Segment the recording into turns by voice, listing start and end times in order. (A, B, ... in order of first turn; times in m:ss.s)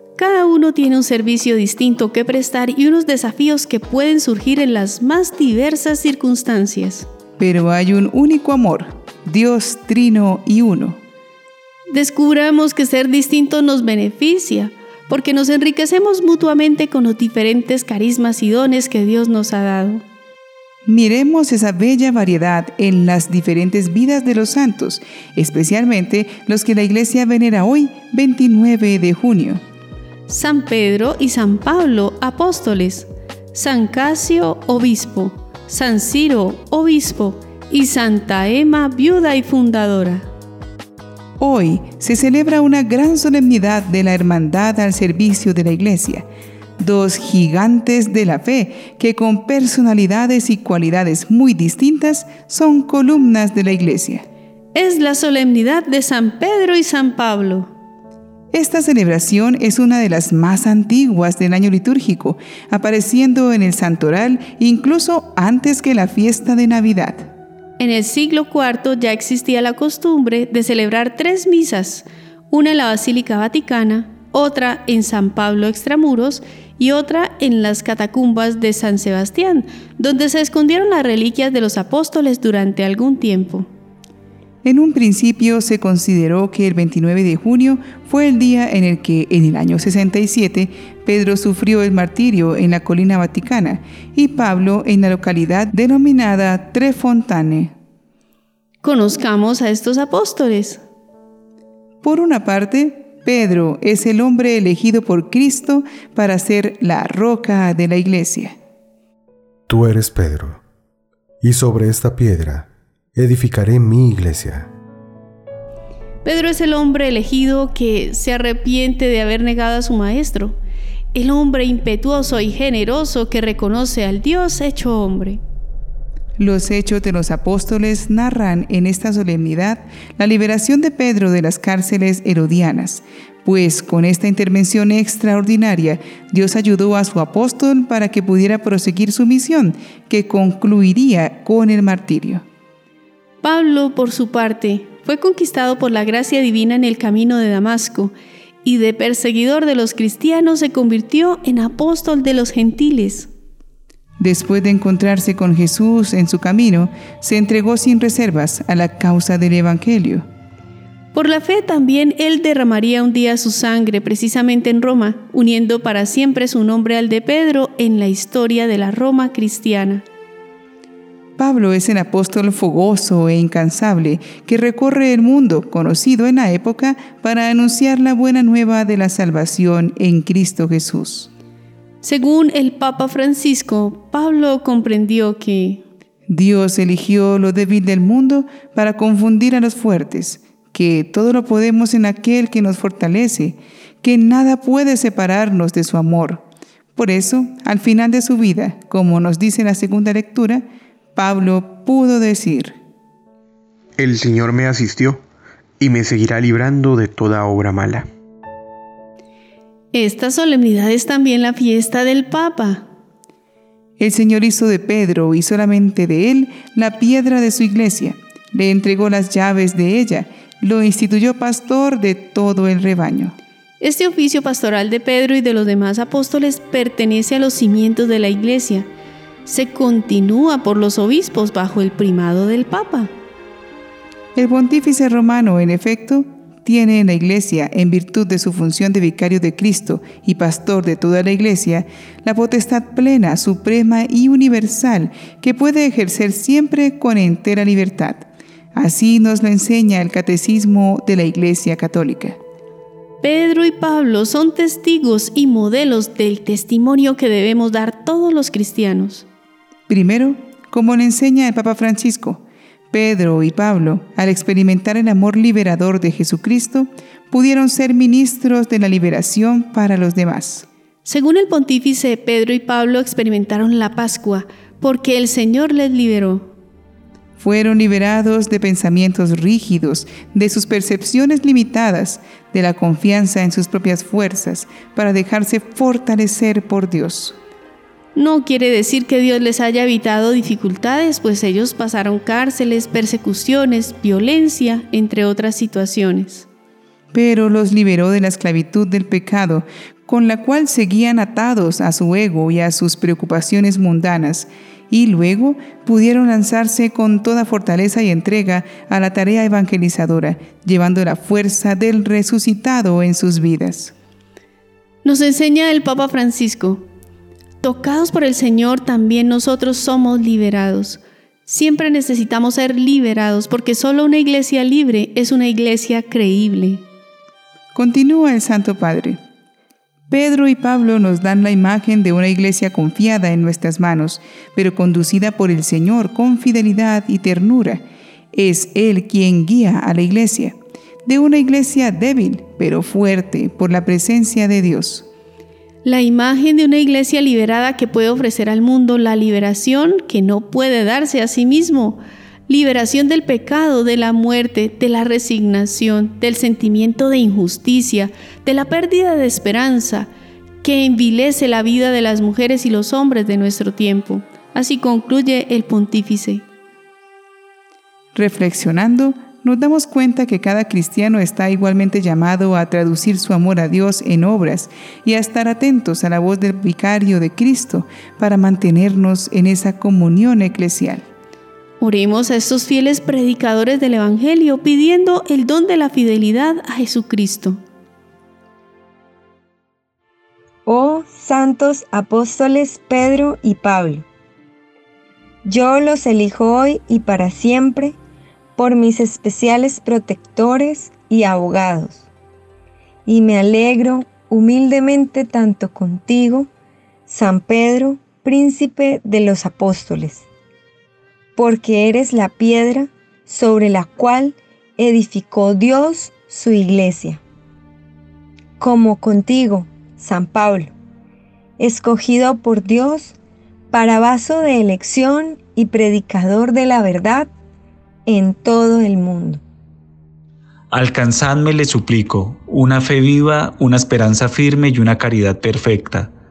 0:00.2-0:07.1 A
0:07.4-0:11.0 B
0:11.9-0:20.0 A
0:20.9-0:29.6 B
0:30.3-0:40.3 A
0:41.4-0:46.3 B
0:46.8-0:54.2 B
0:54.7-0:57.7 A
0:58.5-1:07.3 B
1:07.8-1:23.7 A
1:24.6-1:37.7 B
1:38.8-1:40.8 A
1:42.0-1:48.6 B
1:49.7-1:50.6 C
1:51.4-1:54.7 C
1:56.2-2:00.6 A
2:01.1-2:05.4 A
2:06.4-2:22.4 B
2:23.4-2:28.1 A
2:28.6-2:33.3 A
2:34.2-2:40.2 B
2:41.1-2:50.0 A
2:51.4-3:01.3 B
3:02.0-3:05.8 A
3:06.3-3:16.4 B
3:17.0-3:22.8 B
3:24.0-3:25.2 D
3:25.8-3:28.1 D
3:29.9-3:32.9 A
3:34.0-3:43.4 B
3:43.8-3:48.9 A
3:49.4-3:53.1 A
3:54.4-4:12.4 B
4:13.2-4:19.3 A
4:19.9-4:30.7 B
4:31.0-4:36.5 A
4:37.4-4:47.4 B
4:48.2-4:56.5 A
4:57.1-5:13.9 B
5:15.0-5:16.8 A
5:17.6-5:26.8 A
5:27.7-5:29.2 B
5:30.1-5:45.1 B
5:45.8-6:00.1 A
6:00.6-6:06.4 A
6:08.2-6:21.1 B
6:21.8-6:27.6 A
6:30.7-6:34.1 E
6:35.4-6:38.0 E
6:38.6-6:42.0 E
6:43.1-6:46.5 E
6:47.1-6:50.3 E
6:51.4-6:57.2 E
6:58.6-7:00.7 E
7:01.6-7:03.2 E
7:03.7-7:07.3 E
7:08.1-7:09.4 E
7:10.7-7:16.1 F